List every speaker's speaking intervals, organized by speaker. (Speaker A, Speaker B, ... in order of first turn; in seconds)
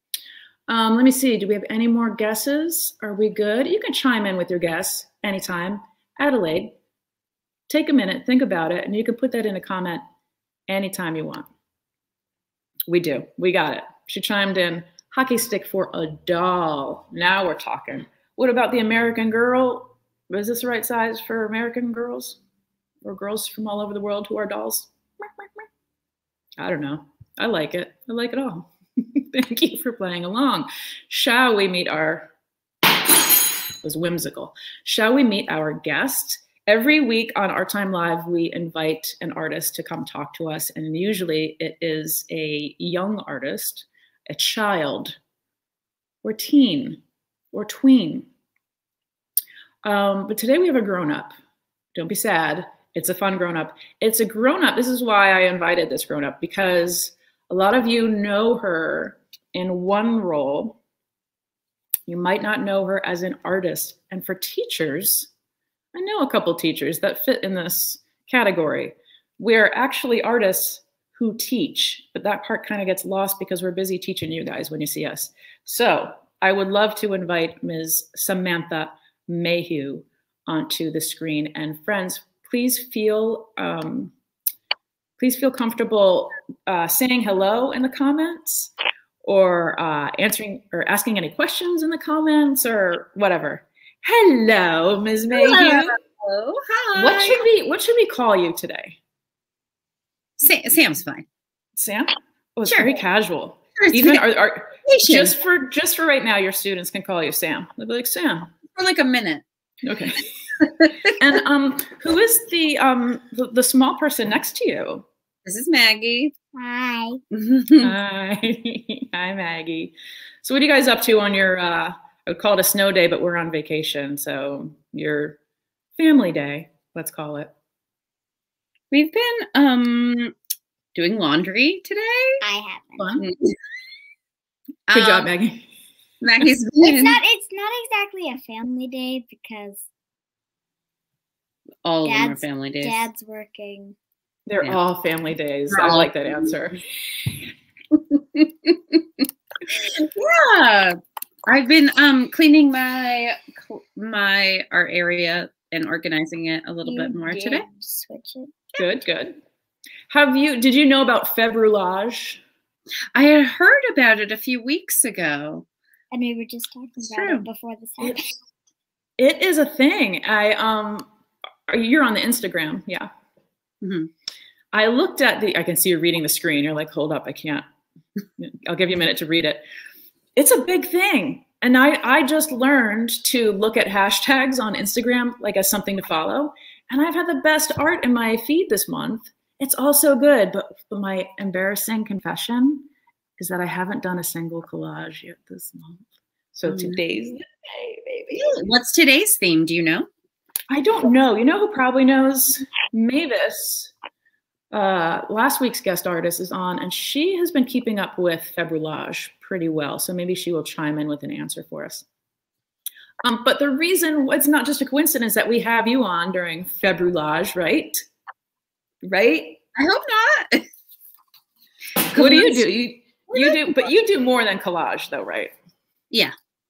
Speaker A: 0.7-6.8, 7.7-10.0, 10.7-11.5, 12.9-22.4, 23.0-25.7, 26.6-32.3, 33.8-45.2, 46.2-48.3, 49.8-51.3, 51.9-60.8, 62.1-65.3, 65.9-84.1, 85.2-96.0, 97.0-99.0, 101.8-108.5, 109.8-110.2, 111.1-115.0, 117.8-125.4, 126.0-127.5, 133.0-133.2, 134.9-135.7, 144.5-146.8, 158.8-159.4, 160.1-162.4, 169.2-171.1, 171.7-173.1, 174.7-177.6, 178.4-179.6, 180.4-198.5, 200.7-203.9, 204.7-212.1, 213.2-218.1, 219.0-219.6, 222.1-225.5
Speaker B: 95.3-97.4, 100.4-101.2, 102.7-102.9, 103.8-104.2, 104.8-105.3, 108.7-109.4, 110.6-111.1, 115.5-116.3, 117.3-117.9, 128.9-130.3, 130.9-132.4, 133.2-133.5, 134.9-135.3, 136.2-137.2, 141.8-143.1, 145.7-146.5, 148.1-149.0, 149.7-157.7, 163.1-165.7, 167.0-167.5, 173.8-174.1, 196.7-197.0, 198.3-200.1, 219.8-220.7, 222.1-222.7, 223.3-223.7
Speaker C: 116.5-117.2, 132.4-133.1, 136.8-139.9, 142.1-143.9, 156.8-158.5, 166.1-168.3